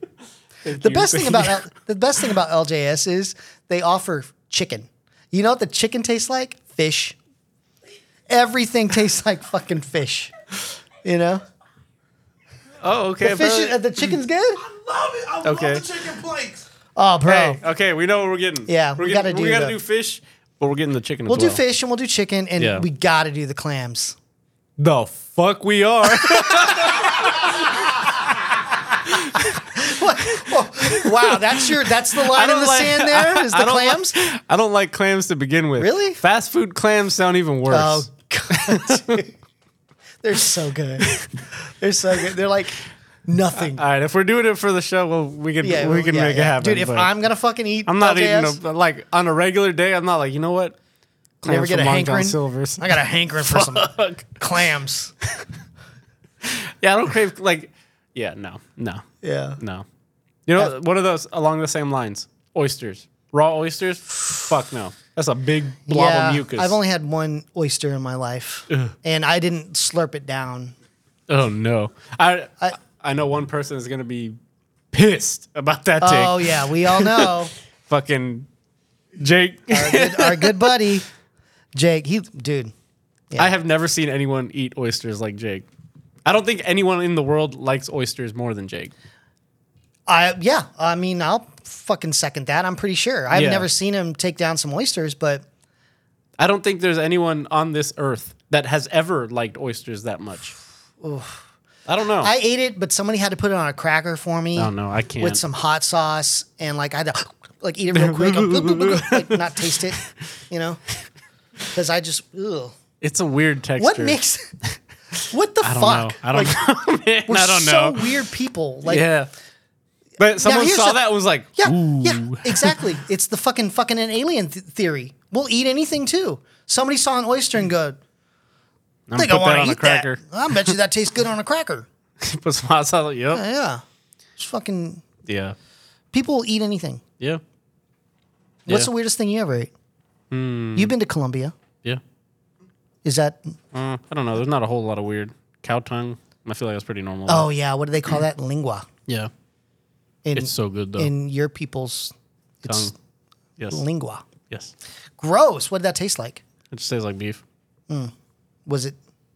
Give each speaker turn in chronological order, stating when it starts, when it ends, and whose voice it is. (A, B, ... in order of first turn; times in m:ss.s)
0:00.6-0:01.6 A
0:00.8-0:07.2 B
0:08.3-0:10.3 B
0:11.0-0:11.4 B
0:12.8-0:13.8 A
0:13.2-0:14.6 B
0:15.2-0:16.2 A
0:17.0-0:17.6 B
0:17.2-0:21.6 A
0:18.7-0:19.8 B
0:21.3-0:24.2 B
0:22.6-0:22.8 A
0:24.8-0:27.6 A
0:26.1-0:27.0 B
0:29.1-0:29.6 A
0:29.5-0:34.1 B
0:30.3-0:39.2 A
0:35.8-0:36.2 B
0:37.7-0:39.3 B
0:40.2-0:43.8 B
0:43.6-0:47.1 A
0:45.6-0:48.6 B
0:47.8-0:50.8 A
0:51.4-0:54.3 A
0:51.4-0:55.1 B
0:56.4-0:59.0 A
0:59.2-0:59.6 B
0:59.6-0:59.8 A
1:00.5-1:06.7 A
1:05.9-1:10.7 B
1:11.3-1:14.4 A
1:14.9-1:17.3 A
1:16.0-1:17.5 B
1:17.9-1:18.5 A
1:19.2-1:20.9 A
1:19.7-1:21.0 B
1:21.7-1:22.7 B
1:23.4-1:25.6 A
1:26.2-1:28.9 A
1:30.1-1:35.4 B
1:33.3-1:33.7 A
1:36.4-1:40.5 A
1:41.0-1:41.4 B
1:41.8-1:42.3 A
1:42.2-1:50.8 B
1:44.6-1:45.4 A
1:47.9-1:49.8 A
1:51.7-1:52.8 B
1:53.0-1:54.2 A
1:53.8-1:54.5 B
1:55.3-1:56.6 B
1:55.6-1:58.1 A
1:57.2-1:59.0 B
1:58.8-1:59.3 A
2:00.2-2:02.9 A
2:00.4-2:01.0 B
2:01.6-2:08.0 B
2:09.1-2:10.7 A
2:09.1-2:11.8 B
2:12.2-2:13.4 A
2:13.3-2:13.8 B
2:14.4-2:15.0 B
2:15.2-2:15.6 A
2:16.1-2:17.0 B
2:18.6-2:19.7 B
2:20.3-2:20.9 A
2:20.8-2:21.5 B
2:23.0-2:23.4 B
2:23.7-2:27.5 A
2:27.3-2:28.9 B
2:30.2-2:32.9 B
2:30.4-2:31.1 A
2:33.7-2:34.2 B
2:35.2-2:36.4 B
2:36.7-2:37.4 A
2:38.7-2:39.0 B